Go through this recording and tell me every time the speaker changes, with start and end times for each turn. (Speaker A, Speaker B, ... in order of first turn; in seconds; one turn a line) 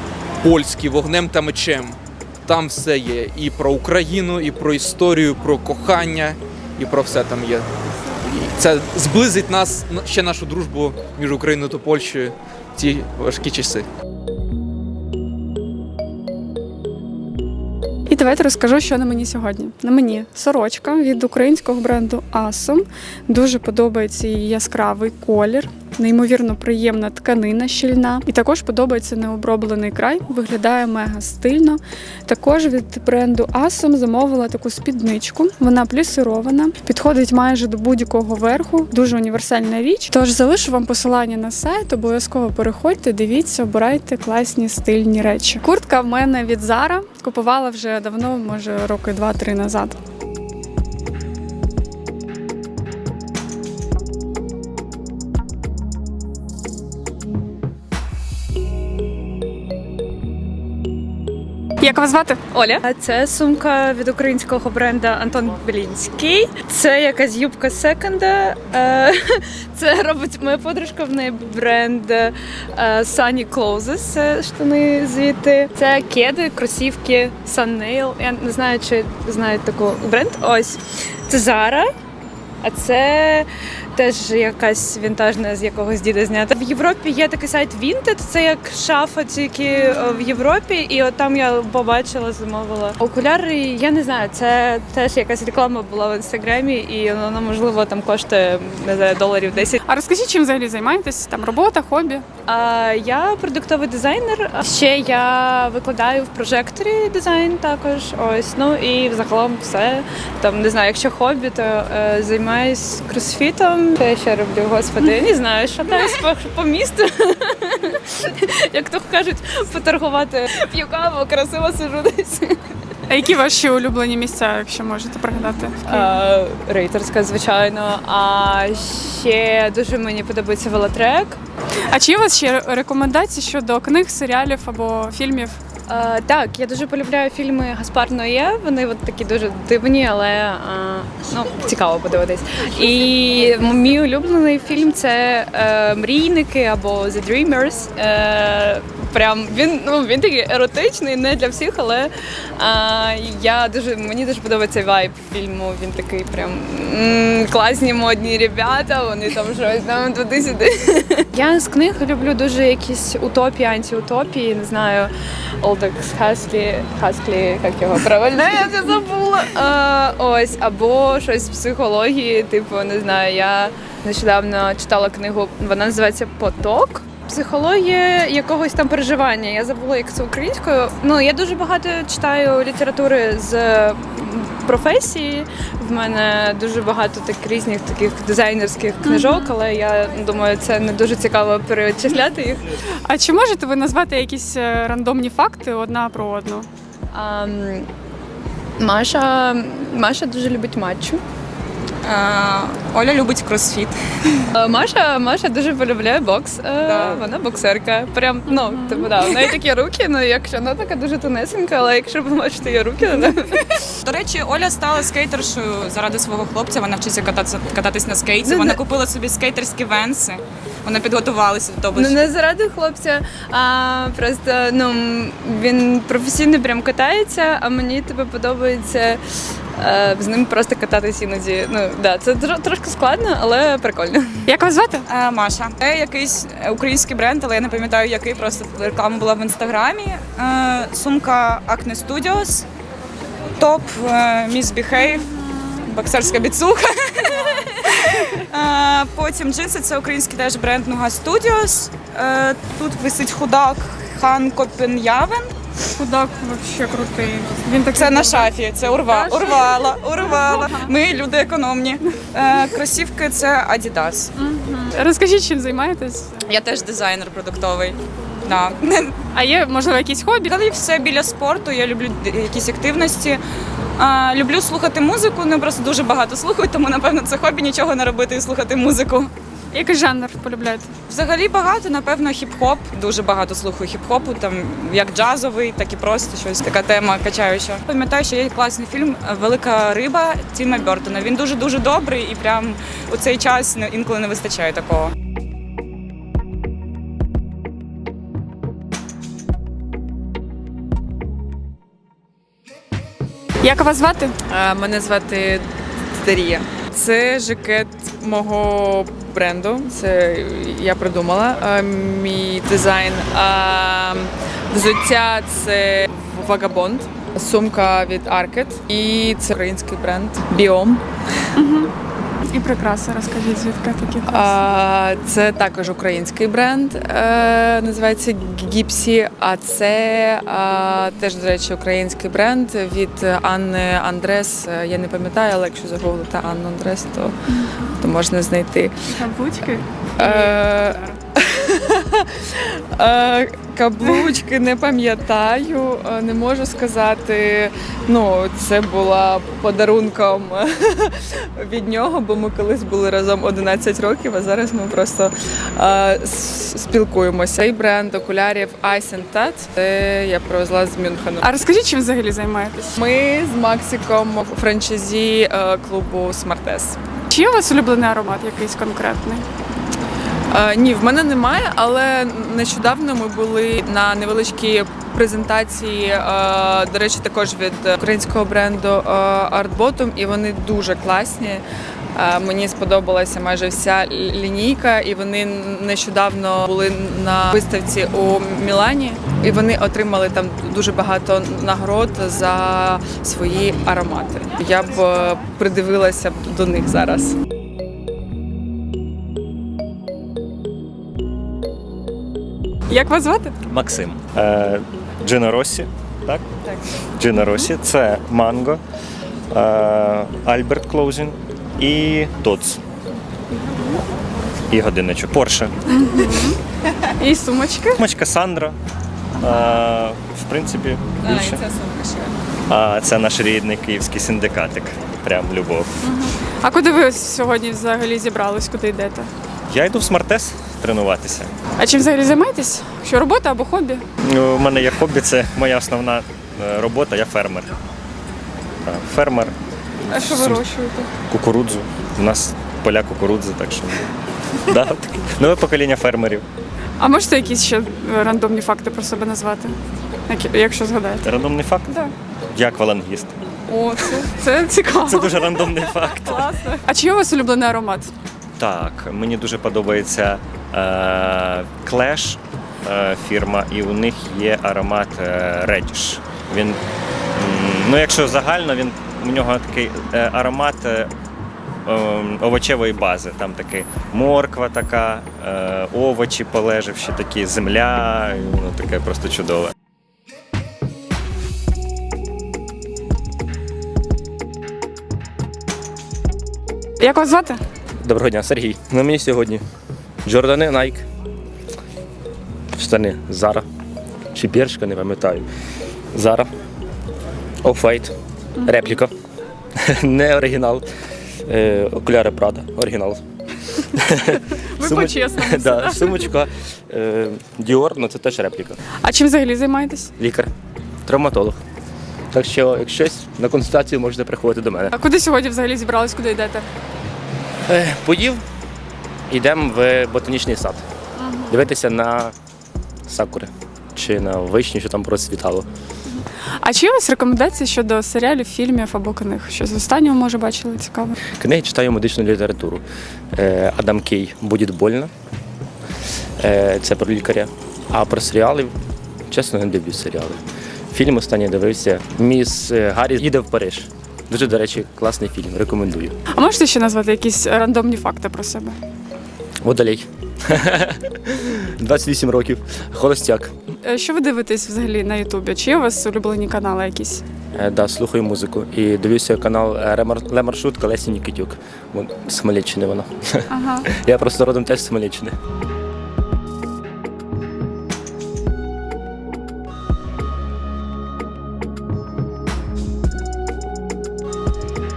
Speaker A: 0.4-7.7
Speaker A: 8.2-13.9
Speaker B: 18.1-50.0
Speaker B: 61.8-62.4
Speaker C: 62.5-81.9
Speaker C: 82.6-99.8
Speaker B: 99.8-102.2
Speaker C: 102.5-122.6
Speaker B: 123.1-126.2
Speaker C: 125.8-131.4
Speaker B: 131.9-135.6
Speaker C: 135.9-192.6
Speaker B: 189.0-189.6
Speaker B: 193.1-196.7
Speaker C: 197.1-197.9
Speaker C: 198.8-201.2
Speaker D: 202.0-203.9
Speaker C: 204.5-213.6
Speaker D: 206.8-207.3
Speaker B: 208.6-209.1
Speaker D: 209.2-209.6
Speaker D: 214.0-222.3
Speaker C: 218.4-218.8
Speaker C: 222.0-229.2
Speaker C: 229.8-234.5
Speaker B: 234.5-235.1
Speaker D: 235.1-242.7
Speaker D: 243.6-245.3
Speaker D: 245.8-255.5
Speaker B: 256.0-258.5
Speaker D: 257.9-264.3
Speaker B: 259.1-260.9
Speaker B: 264.4-266.4
Speaker D: 266.5-269.1
Speaker B: 269.3-270.5
Speaker D: 270.5-273.4
Speaker D: 274.0-279.3
Speaker B: 279.7-280.9
Speaker D: 281.1-295.1
Speaker B: 303.6-304.4
Speaker E: 304.5-305.7
Speaker E: 306.2-321.0
Speaker B: 321.6-321.9
Speaker B: 322.5-324.6
Speaker E: 324.3-337.4
Speaker E: 338.0-338.9
Speaker B: 339.1-341.2
Speaker E: 340.2-361.5
Speaker B: 344.0-344.4
Speaker B: 361.4-363.0
Speaker E: 363.0-367.0
Speaker B: 367.3-369.5
Speaker E: 370.5-381.6
Speaker E: 382.1-397.4
Speaker B: 402.9-403.6
Speaker F: 403.7-406.4
Speaker F: 407.2-408.8
Speaker F: 409.5-412.8
Speaker F: 414.7-415.7
Speaker B: 415.9-416.6
Speaker B: 417.2-418.0
Speaker F: 418.0-418.8
Speaker F: 419.4-421.7
Speaker C: 421.2-422.2
Speaker F: 422.7-425.9
Speaker B: 426.0-429.3
Speaker F: 429.7-431.5
Speaker B: 431.8-434.0
Speaker F: 434.2-437.7
Speaker F: 438.9-439.5
Speaker F: 440.1-440.7
Speaker B: 440.1-441.1
Speaker F: 441.3-444.0
Speaker F: 444.7-446.5
Speaker B: 447.0-449.8
Speaker B: 450.3-451.3
Speaker F: 451.2-453.4
Speaker B: 451.9-452.1
Speaker E: 453.7-454.3
Speaker B: 454.4-458.1
Speaker F: 454.9-456.6
Speaker F: 458.6-466.8
Speaker F: 467.4-471.1
Speaker F: 471.9-479.7
Speaker B: 487.0-487.6
Speaker G: 488.0-489.6
Speaker G: 490.2-491.1
Speaker G: 492.7-493.6
Speaker G: 494.3-495.5
Speaker G: 496.1-496.5
Speaker G: 497.6-499.1
Speaker G: 499.8-500.9
Speaker G: 501.5-503.2
Speaker G: 504.0-508.8
Speaker B: 504.8-506.3
Speaker B: 509.0-510.1
Speaker G: 510.2-510.5
Speaker G: 511.1-511.6
Speaker G: 512.3-515.0
Speaker B: 514.9-516.7
Speaker G: 517.7-518.4
Speaker G: 519.3-520.8
Speaker B: 521.2-521.7
Speaker G: 521.5-522.3
Speaker G: 523.1-525.7
Speaker B: 526.1-531.2
Speaker G: 531.4-535.1
Speaker G: 536.4-538.8
Speaker G: 539.3-540.4
Speaker G: 540.9-546.1
Speaker B: 546.3-548.8
Speaker G: 549.6-553.5
Speaker B: 553.8-557.2
Speaker G: 557.5-565.4
Speaker B: 563.5-563.9